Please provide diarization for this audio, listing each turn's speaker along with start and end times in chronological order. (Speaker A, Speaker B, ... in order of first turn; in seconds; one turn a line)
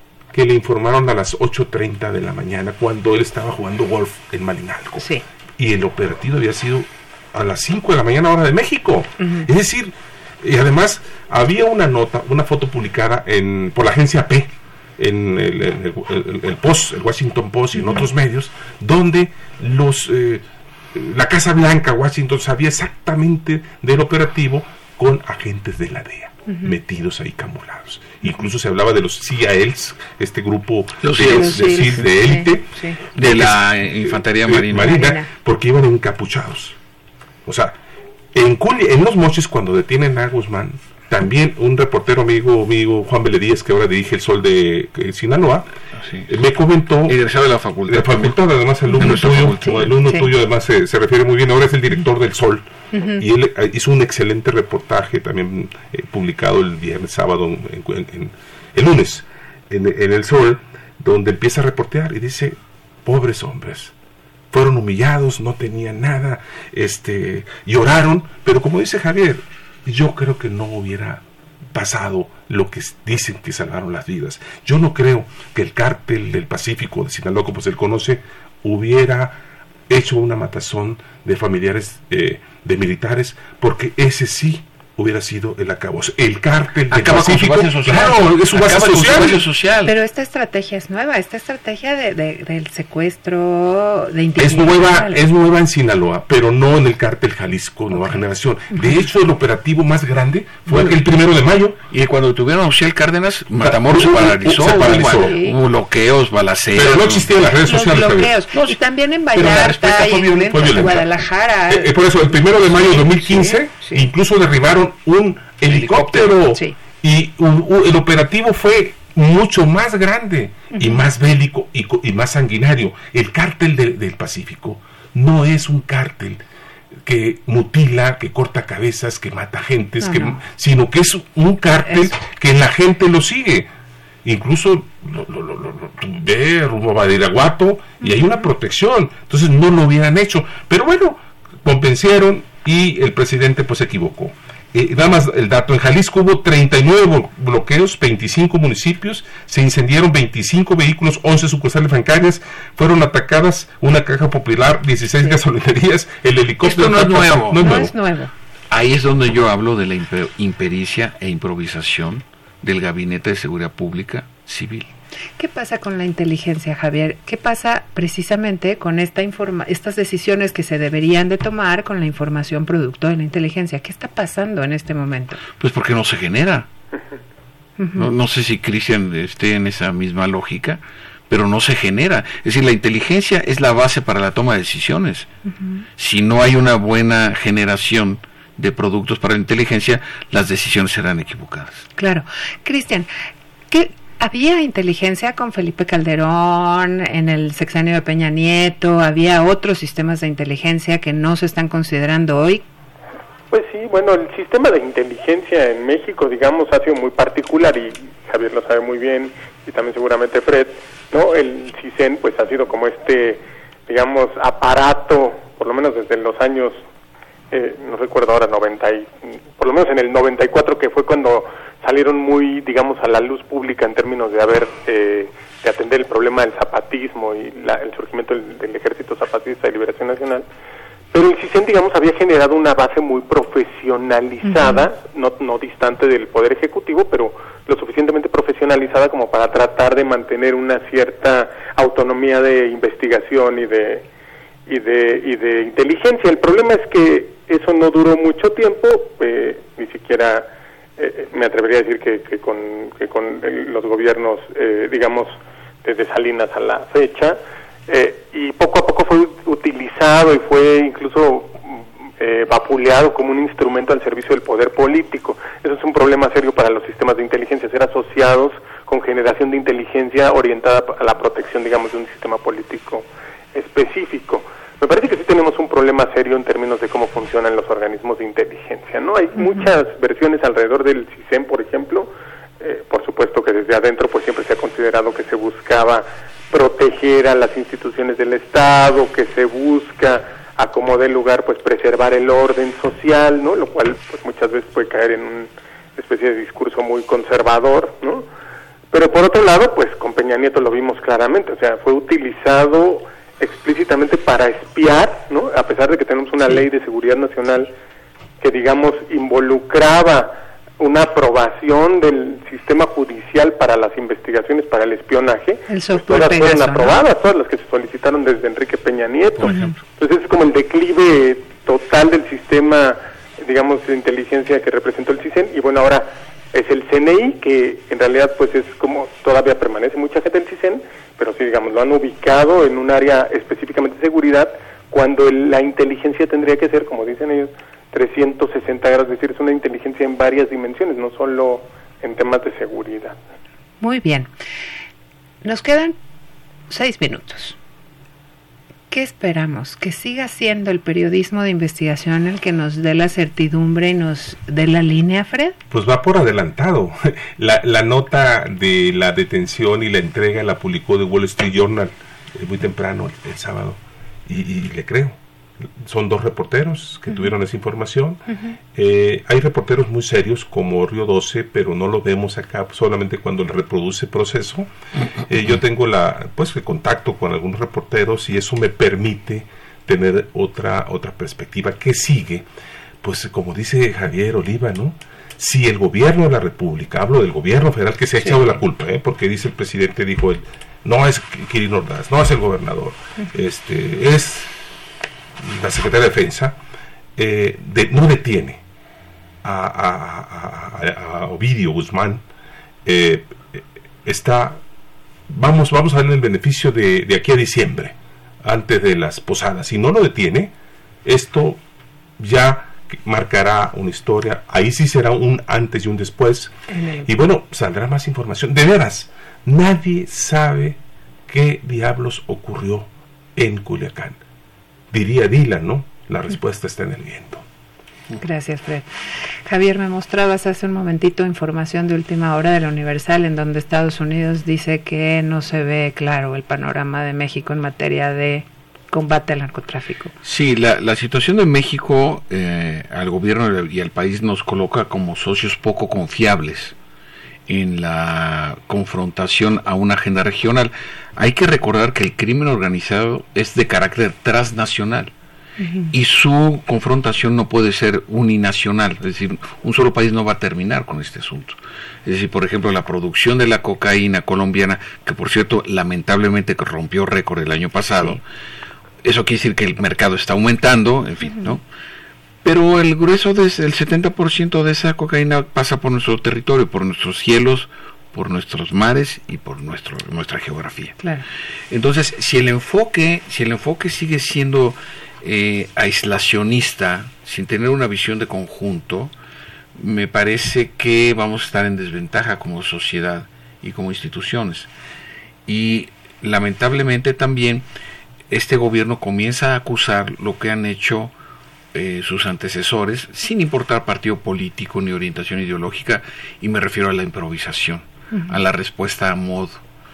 Speaker A: 0.3-36.8
Speaker B: 9.2-9.5
Speaker B: 17.8-18.0
Speaker B: 26.5-26.8
Speaker C: 31.0-32.1
Speaker B: 31.2-33.0
Speaker C: 33.1-35.0
Speaker B: 34.7-35.3
Speaker A: 37.5-37.8
Speaker A: 38.3-45.7
Speaker C: 46.0-46.3
Speaker A: 46.3-47.2
Speaker C: 47.1-48.4
Speaker A: 47.9-63.9
Speaker B: 48.9-50.3
Speaker C: 48.9-49.9
Speaker B: 52.9-53.3
Speaker A: 64.5-71.2
Speaker A: 71.7-79.4
Speaker A: 79.9-89.5
Speaker C: 86.9-90.0
Speaker B: 89.9-95.2
Speaker A: 94.4-101.8
Speaker B: 98.7-99.1
Speaker C: 100.7-101.0
Speaker C: 101.9-107.4
Speaker A: 103.6-105.4
Speaker B: 104.9-105.6
Speaker A: 106.7-108.4
Speaker B: 107.6-114.1
Speaker C: 108.5-108.8
Speaker C: 109.3-111.0
Speaker A: 109.4-111.0
Speaker A: 111.7-126.4
Speaker C: 115.7-116.5
Speaker B: 120.7-121.1
Speaker A: 127.1-133.7
Speaker B: 130.0-130.4
Speaker B: 131.9-132.1
Speaker A: 134.2-157.9
Speaker B: 138.0-138.4
Speaker C: 156.6-157.8
Speaker B: 157.5-158.3
Speaker C: 158.7-164.9
Speaker B: 165.4-175.4
Speaker C: 175.6-176.7
Speaker B: 177.8-178.1
Speaker C: 177.9-185.3
Speaker B: 185.5-185.9
Speaker C: 186.0-191.9
Speaker B: 192.0-193.1
Speaker B: 193.7-202.6
Speaker D: 203.5-216.8
Speaker D: 217.5-230.4
Speaker D: 231.1-244.0
Speaker B: 234.4-234.9
Speaker D: 244.7-282.1
Speaker B: 279.4-279.7
Speaker D: 282.6-298.3
Speaker D: 298.9-307.7
Speaker D: 308.4-343.2
Speaker B: 315.7-317.0
Speaker C: 319.4-319.7
Speaker B: 319.5-319.7
Speaker B: 343.8-344.3
Speaker B: 345.4-345.9
Speaker B: 346.7-347.6
Speaker B: 348.9-355.6
Speaker A: 355.7-365.2
Speaker A: 365.8-368.2
Speaker B: 368.3-368.6
Speaker A: 368.7-374.7
Speaker A: 375.3-382.5
Speaker A: 383.0-394.5
Speaker B: 388.2-388.6
Speaker A: 395.4-396.6
Speaker A: 397.2-398.6
Speaker A: 399.4-402.2
Speaker A: 402.9-404.6
Speaker A: 405.3-410.5
Speaker A: 411.1-411.6
Speaker A: 412.2-424.2
Speaker B: 416.7-417.1
Speaker A: 424.9-427.4
Speaker B: 428.2-428.9
Speaker B: 429.5-440.1
Speaker C: 440.2-446.8
Speaker C: 447.5-455.1
Speaker B: 455.6-455.9
Speaker C: 455.9-468.2
Speaker C: 469.0-471.6
Speaker B: 471.3-471.5
Speaker C: 472.4-481.0
Speaker B: 481.0-481.2
Speaker C: 481.7-489.1
Speaker C: 489.8-494.7
Speaker C: 495.5-497.7
Speaker C: 498.3-501.1
Speaker C: 501.7-509.6